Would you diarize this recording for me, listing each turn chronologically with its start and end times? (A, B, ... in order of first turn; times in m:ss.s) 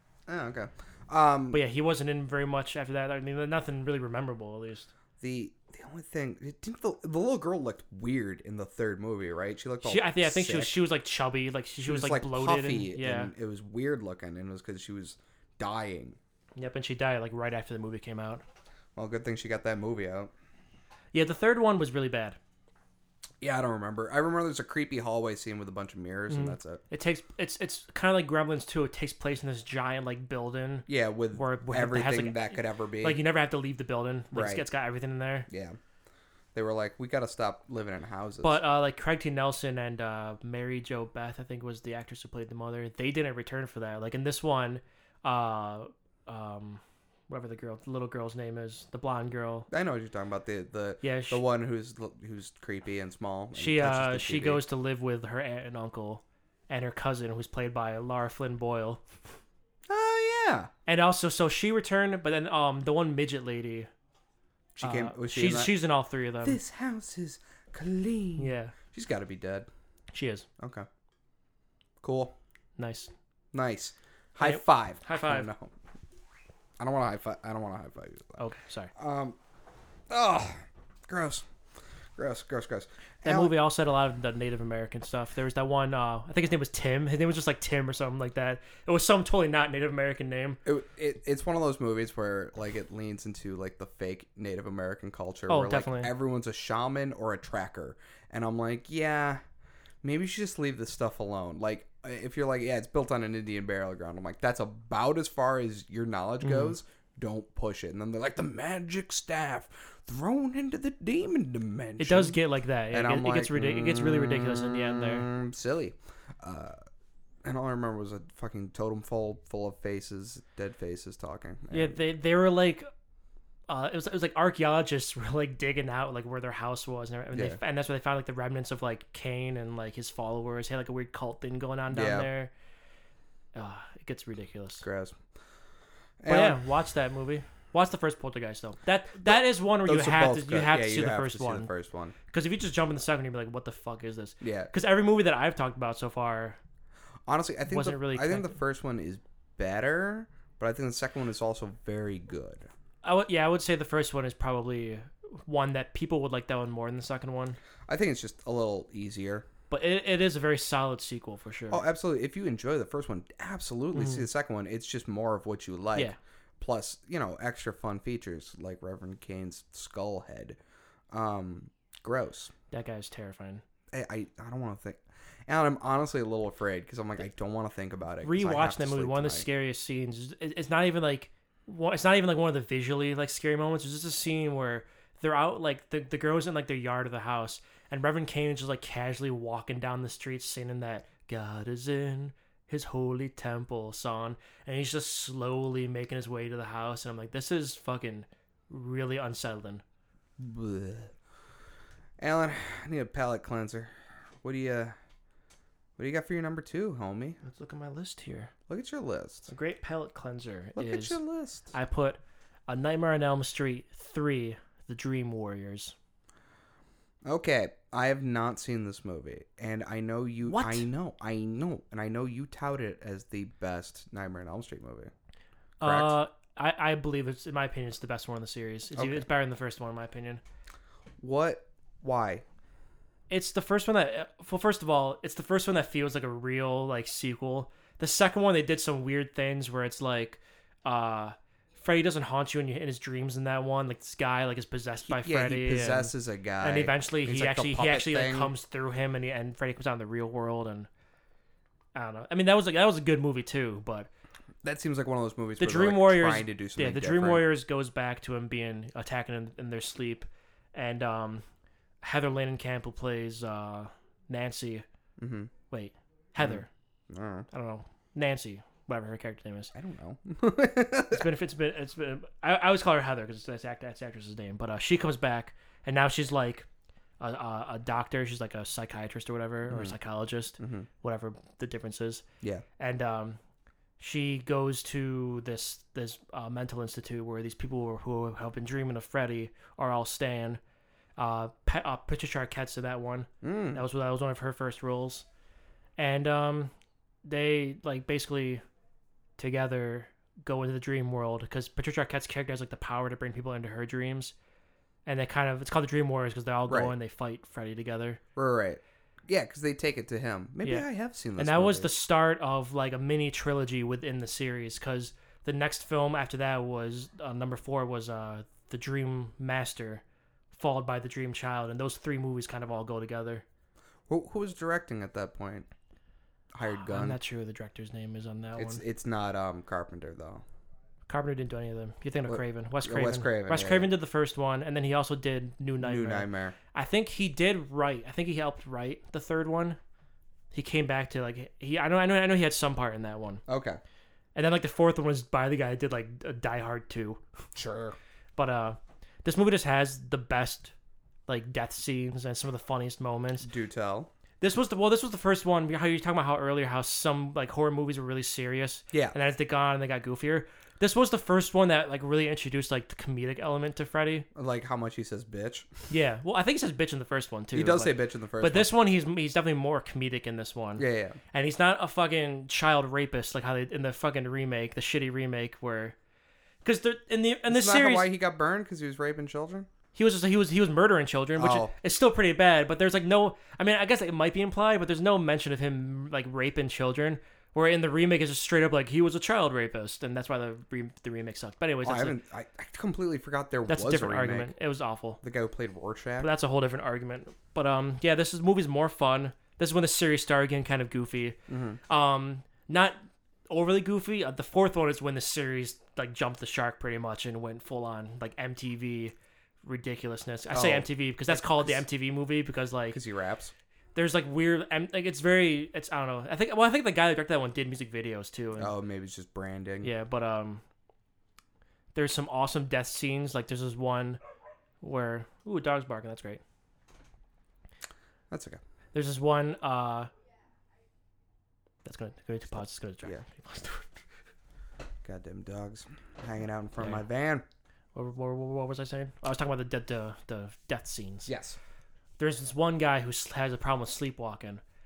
0:00.3-0:01.6 A
0:01.5-0:04.9 B
0:05.2-0:10.8 A
0:09.8-0:13.3 B
0:11.9-0:16.2 A
0:16.6-0:18.4 B
0:19.0-0:20.3 A
0:21.1-0:22.4 B
0:23.4-0:26.8 A
0:26.3-0:35.5 B
0:30.9-0:33.2 A
0:34.3-0:34.7 A
0:35.5-0:35.8 A
0:36.6-0:38.6 A
0:38.4-0:49.7 B
0:49.7-0:54.6 A
0:51.0-0:51.4 B
0:53.6-0:59.1 B
0:59.9-1:00.7 A
1:00.9-1:03.9 B
1:04.8-1:05.8 A
1:04.8-1:06.6 B
1:06.4-1:09.7 A
1:08.4-1:08.7 B
1:10.1-1:10.5 B
1:10.6-1:10.9 A
1:12.0-1:12.4 A
1:12.8-1:13.1 B
1:13.5-1:15.7 A
1:14.4-1:15.5 B
1:16.8-1:18.4 A
1:18.4-1:18.9 B
1:19.0-1:19.4 A
1:20.1-1:21.4 A
1:22.2-1:23.5 A
1:23.2-1:30.6 B
1:30.6-1:39.4 A
1:35.5-1:36.1 B
1:40.0-1:52.4 A
1:46.4-1:46.8 B
1:52.0-1:55.3 B
1:52.9-1:56.8 A
1:57.4-2:02.0 A
2:01.7-2:02.9 B
2:03.7-2:12.5 B
2:07.3-2:07.6 A
2:11.9-2:12.3 A
2:13.6-2:14.9 B
2:14.8-2:15.2 A
2:16.2-2:16.6 A
2:16.3-2:21.7 B
2:19.2-2:22.2 A
2:22.3-2:26.6 B
2:24.4-2:24.7 A
2:27.3-2:32.7 A
2:27.7-2:28.5 B
2:33.0-2:37.6 B
2:37.9-2:39.5 A
2:39.7-2:41.8 B
2:41.7-2:50.6 A
2:43.9-2:44.3 B
2:51.1-2:52.5 A
2:52.7-2:53.6 B
2:53.9-2:59.5 A
2:58.2-3:19.8 B
3:20.4-3:21.1 A
3:22.2-3:25.0 A
3:26.0-3:27.4 A
3:27.4-3:28.5 B
3:28.7-3:29.5 A
3:29.5-3:31.2 B
3:30.8-3:31.7 A
3:31.7-3:36.0 B
3:37.2-3:45.1 A
3:40.5-3:40.9 B
3:45.8-3:46.2 A
3:45.8-3:50.4 B
3:49.0-3:49.2 A
3:51.2-3:52.4 A
3:53.3-4:10.9 B
4:05.1-4:08.5 A
4:12.0-4:14.1 B
4:14.6-4:17.5 A
4:15.6-4:21.4 B
4:22.0-4:24.8 B
4:25.2-4:25.5 A
4:25.7-4:26.7 B
4:26.4-4:27.5 A
4:27.5-4:29.7 B
4:29.7-4:31.3 A
4:31.1-4:36.7 B
4:37.2-4:42.2 B
4:39.7-4:40.0 A
4:40.6-4:40.9 A
4:42.8-4:43.4 B
4:44.0-4:50.6 B
4:51.2-4:55.2 B
4:53.4-4:53.8 A
4:56.0-4:56.7 B
4:57.2-4:58.6 B
4:59.4-5:04.3 B
5:05.1-5:08.2 B
5:06.7-5:06.9 A
5:08.4-5:11.9 A
5:10.6-5:20.0 B
5:20.5-5:23.4 B
5:24.1-5:25.7 A
5:26.5-5:27.2 A
5:26.7-5:28.8 B
5:28.6-5:30.4 A
5:31.1-5:39.8 B
5:32.3-5:33.9 A
5:35.8-5:36.6 A
5:40.5-5:43.4 B
5:43.5-5:43.8 A
5:44.4-5:47.2 B
5:47.6-5:48.0 A
5:48.4-5:50.7 B
5:51.3-5:53.5 B
5:53.4-5:54.1 A
5:54.4-6:04.3 B
6:04.4-6:05.8 A
6:05.9-6:16.0 B
6:07.5-6:08.7 A
6:10.8-6:11.2 A
6:16.6-6:18.1 B
6:17.5-6:19.7 A
6:20.0-6:32.2 B
6:21.4-6:21.7 A
6:31.8-6:34.5 A
6:33.7-6:35.2 B
6:35.2-6:36.3 A
6:36.2-6:53.0 B
6:41.5-6:41.8 A
6:50.5-6:51.8 A
6:52.9-6:53.5 A
6:54.0-6:58.7 B
6:58.6-6:59.9 A
6:59.8-7:00.6 B
7:02.0-7:04.2 B
7:04.8-7:06.4 B
7:08.3-7:08.6 A
7:08.9-7:10.1 B
7:11.8-7:13.9 B
7:15.0-7:17.4 A
7:17.9-7:21.3 B
7:21.3-7:21.6 A
7:22.2-7:24.6 B